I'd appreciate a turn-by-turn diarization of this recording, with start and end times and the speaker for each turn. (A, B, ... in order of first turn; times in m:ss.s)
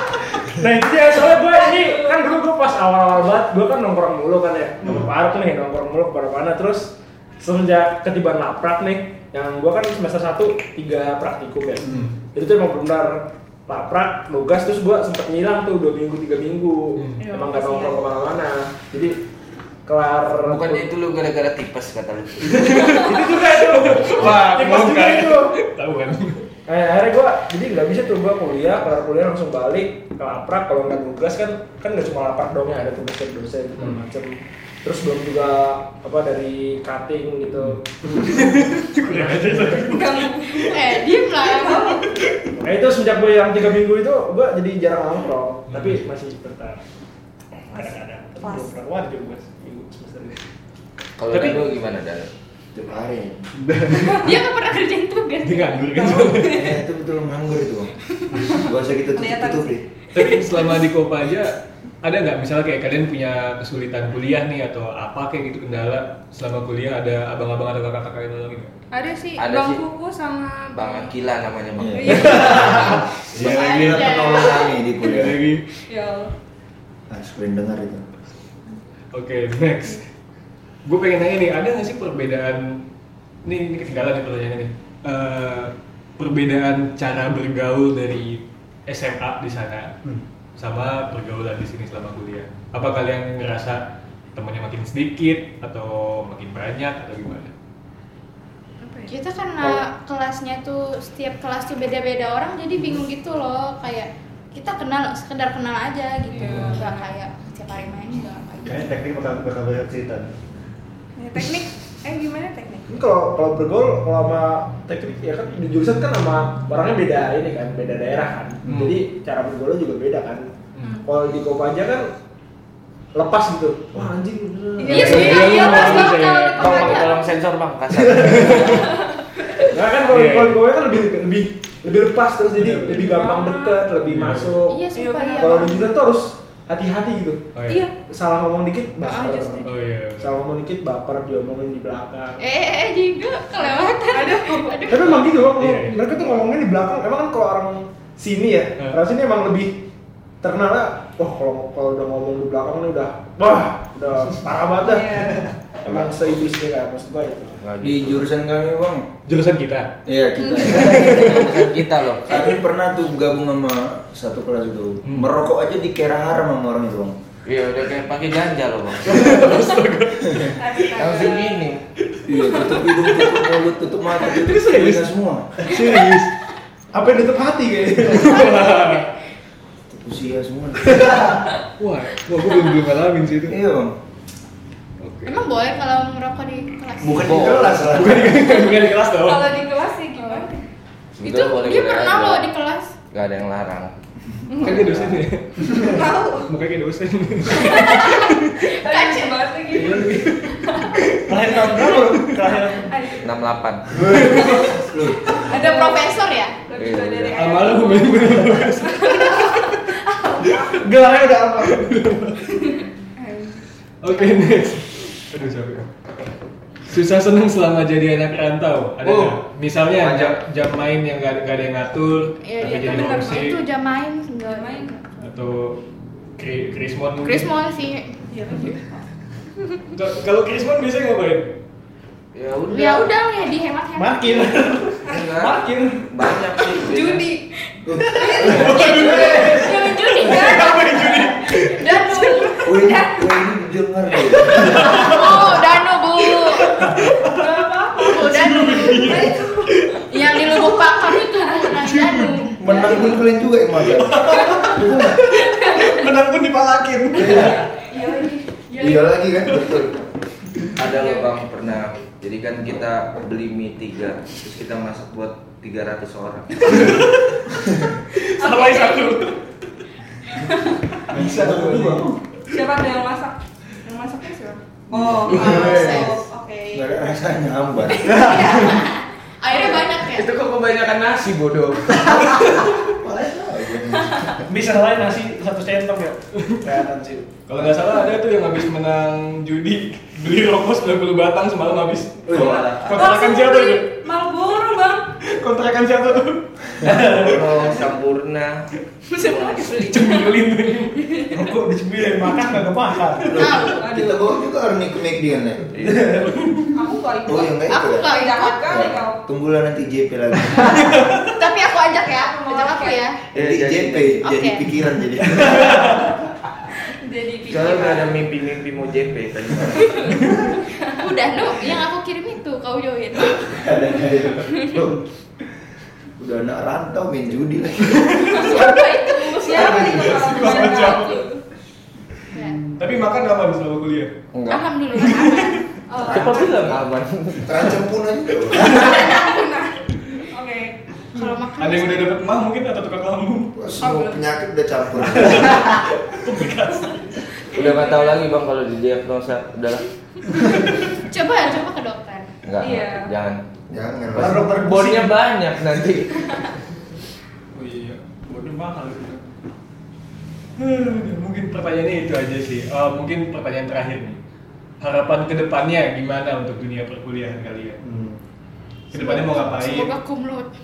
0:00.5-0:19.2 A
0:01.6-0:01.9 B
0:11.8-0:12.2 C
0:17.0-0:17.2 C
0:17.2-0:18.0 B
0:19.8-0:20.9 A
0:20.4-0:22.9 D
0:22.4-0:26.5 C
0:23.0-0:25.5 A
0:26.7-0:40.0 A
0:37.6-0:40.6 C
0:39.9-0:42.2 B
0:40.6-0:42.0 E
0:42.2-0:42.6 C
0:42.6-0:46.8 A
0:45.7-0:46.0 C
0:47.7-0:50.4 A
0:51.2-0:52.3 D
0:51.3-0:51.6 C
0:52.7-0:53.5 F
0:53.8-0:54.3 C
0:53.9-0:56.3 E
0:55.4-0:56.7 C
0:56.5-0:57.9 F
0:58.5-0:59.8 F
0:59.1-1:00.3 B
1:00.1-1:08.7 C
1:08.9-1:11.1 B
1:09.4-1:09.8 D
1:10.7-1:13.1 D
1:11.8-1:15.4 F
1:11.9-1:13.1 B
1:13.3-1:14.2 C
1:13.4-1:14.8 E
1:15.0-1:15.6 C
1:15.9-1:16.3 B
1:17.1-1:18.0 F
1:19.1-1:20.0 C
1:20.8-1:22.8 C
1:23.4-1:29.9 C
1:30.6-1:37.5 C
1:38.8-1:39.2 B
1:39.1-1:49.0 E
1:46.3-1:47.1 B
1:46.4-1:46.8 C
1:48.6-1:50.3 G
1:51.2-1:52.9 B
1:52.9-2:00.5 A
1:58.6-1:59.0 C
2:01.0-2:02.1 A
2:03.1-2:07.1 A
2:04.8-2:07.2 B
2:04.8-2:06.7 C
2:05.5-2:06.1 E
2:06.6-2:08.9 D
2:08.0-2:08.4 A
2:08.2-2:08.8 C
2:08.7-2:09.0 B
2:09.6-2:14.9 A
2:10.1-2:10.7 C
2:12.6-2:13.0 C
2:12.9-2:13.8 B
2:14.0-2:14.6 C
2:14.7-2:15.9 E
2:14.9-2:15.7 B
2:15.4-2:17.4 A
2:17.5-2:17.9 C
2:17.7-2:17.9 B
2:18.0-2:22.4 A
2:19.0-2:19.7 B
2:19.6-2:20.3 C
2:22.4-2:25.2 E
2:24.1-2:25.0 B
2:24.9-2:29.8 A
2:25.5-2:26.3 C
2:30.4-2:37.6 A
2:34.8-2:35.4 B
2:35.8-2:36.4 D
2:37.6-2:38.3 D
2:37.8-2:39.1 F
2:39.3-2:40.0 C
2:40.0-2:41.6 F
2:40.7-2:41.5 C
2:41.0-2:42.5 D
2:42.2-2:47.2 F
2:45.0-2:45.3 C
2:47.4-2:49.5 D
2:49.0-2:50.7 C
2:50.6-2:51.6 B
2:50.8-2:51.8 D
2:52.1-2:53.3 C
2:52.3-2:55.6 F
2:54.3-2:56.3 C
2:55.7-2:56.1 A
2:56.9-2:58.5 A
2:58.0-2:59.1 C
2:58.3-2:59.1 E
2:59.9-3:01.5 F
3:01.8-3:03.6 C
3:03.5-3:03.9 F
3:05.0-3:05.4 C
3:05.2-3:07.8 E
3:07.0-3:08.5 F
3:07.1-3:08.1 D
3:07.9-3:09.5 C
3:09.2-3:10.6 B
3:10.2-3:10.5 E
3:11.2-3:12.5 D
3:11.2-3:12.9 E
3:13.1-3:13.9 D
3:14.5-3:15.0 B
3:14.6-3:18.5 C
3:14.8-3:15.2 D
3:15.6-3:16.5 B
3:17.5-3:20.9 B
3:17.6-3:19.5 E
3:19.7-3:20.3 A
3:19.9-3:21.3 C
3:21.2-3:23.0 A
3:21.6-3:21.9 B
3:22.0-3:22.5 C
3:22.9-3:23.3 B
3:23.2-3:24.0 D
3:24.0-3:24.7 C
3:24.0-3:25.4 F
3:24.3-3:30.7 B
3:25.3-3:26.6 E
3:26.8-3:27.5 D
3:27.3-3:29.1 C
3:30.7-3:31.9 A
3:31.6-3:32.6 C
3:32.6-3:33.6 B
3:34.0-3:35.9 C
3:36.9-3:43.6 C
3:39.0-3:40.4 D
3:42.4-3:45.0 E
3:42.6-3:43.5 B
3:44.5-3:45.0 B
3:45.2-3:45.8 C
3:46.4-3:47.5 C
3:47.2-3:48.8 E
3:48.3-3:48.8 B
3:49.9-3:51.6 C
3:52.3-3:53.1 D
3:52.7-3:54.6 E
3:53.9-3:56.0 A
3:55.1-3:57.3 D
3:56.7-3:57.4 B
3:57.8-3:59.6 F
3:58.2-4:02.9 E
3:58.3-4:01.7 C
3:58.7-4:03.2 B
4:02.6-4:05.1 F
4:04.6-4:05.5 C
4:04.6-4:07.0 E
4:05.0-4:05.6 B
4:06.6-4:08.3 B
4:06.6-4:07.5 C
4:08.0-4:09.6 E
4:08.1-4:11.2 C
4:08.9-4:09.6 B
4:10.1-4:13.2 E
4:11.7-4:12.6 C
4:12.6-4:15.2 F
4:13.9-4:17.6 C
4:15.4-4:16.1 E
4:17.2-4:17.6 F
4:17.8-4:19.2 E
4:17.9-4:18.4 B
4:18.8-4:20.0 F
4:20.8-4:27.1 D
4:20.8-4:21.3 B
4:26.6-4:27.2 C
4:28.1-4:29.4 C
4:28.4-4:29.2 B
4:30.4-4:30.7 B
4:31.1-4:32.2 F
4:31.1-4:32.0 A
4:32.5-4:36.9 B
4:35.1-4:36.1 F
4:35.3-4:36.1 E
4:36.7-4:38.6 F
4:38.0-4:38.9 B
4:38.1-4:40.3 E
4:39.5-4:39.8 B
4:39.5-4:42.3 D
4:42.0-4:44.5 F
4:42.1-4:42.5 C
4:44.5-4:47.4 A
4:46.3-4:46.6 C
4:47.5-4:54.0 C
4:52.3-4:53.2 D
4:52.5-4:55.1 B
4:55.2-4:57.6 C
4:56.8-5:00.0 D
4:59.1-5:00.4 E
4:59.8-5:01.4 C
5:01.0-5:01.3 E
5:01.3-5:03.4 A
5:02.2-5:02.6 C
5:03.3-5:03.9 E
5:03.3-5:05.7 F
5:03.4-5:04.4 B
5:05.7-5:06.1 D
5:05.8-5:06.3 A
5:06.2-5:06.8 C
5:06.7-5:09.2 B
5:07.2-5:08.1 F
5:07.7-5:08.9 E
5:08.7-5:11.0 F
5:10.6-5:13.2 E
5:10.8-5:11.1 C
5:12.4-5:13.0 B
5:13.3-5:14.2 D
5:13.3-5:16.1 F
5:14.2-5:14.6 E
5:17.0-5:18.2 B
5:17.5-5:20.3 D
5:21.0-5:23.9 E
5:23.2-5:25.0 F
5:26.2-5:28.6 F
5:28.0-5:28.4 C
5:28.3-5:30.1 E
5:29.4-5:31.4 B
5:29.5-5:31.2 C
5:32.3-5:32.6 E
5:32.8-5:34.1 C
5:34.3-5:34.7 D
5:34.5-5:36.4 E
5:34.9-5:35.6 C
5:35.9-5:36.5 B
5:36.0-5:37.6 D
5:36.1-5:36.8 F
5:37.4-5:39.0 F
5:38.6-5:39.8 B
5:38.7-5:39.0 C
5:38.7-5:39.4 E
5:40.3-5:40.7 B
5:41.1-5:42.2 E
5:41.6-5:43.5 C
5:43.5-5:45.8 F
5:43.8-5:44.3 B
5:45.2-5:47.2 C
5:47.5-5:49.9 D
5:47.5-5:48.2 B
5:50.9-5:52.3 E
5:52.4-5:53.4 D
5:52.6-5:53.1 B
5:53.7-5:54.7 F
5:54.1-5:56.4 D
5:54.2-5:55.1 A
5:57.5-5:58.0 C
5:58.3-5:59.2 A
6:00.6-6:04.2 C
6:04.8-6:07.8 C
6:07.8-6:08.2 G
6:08.9-6:09.9 C
6:08.9-6:10.5 E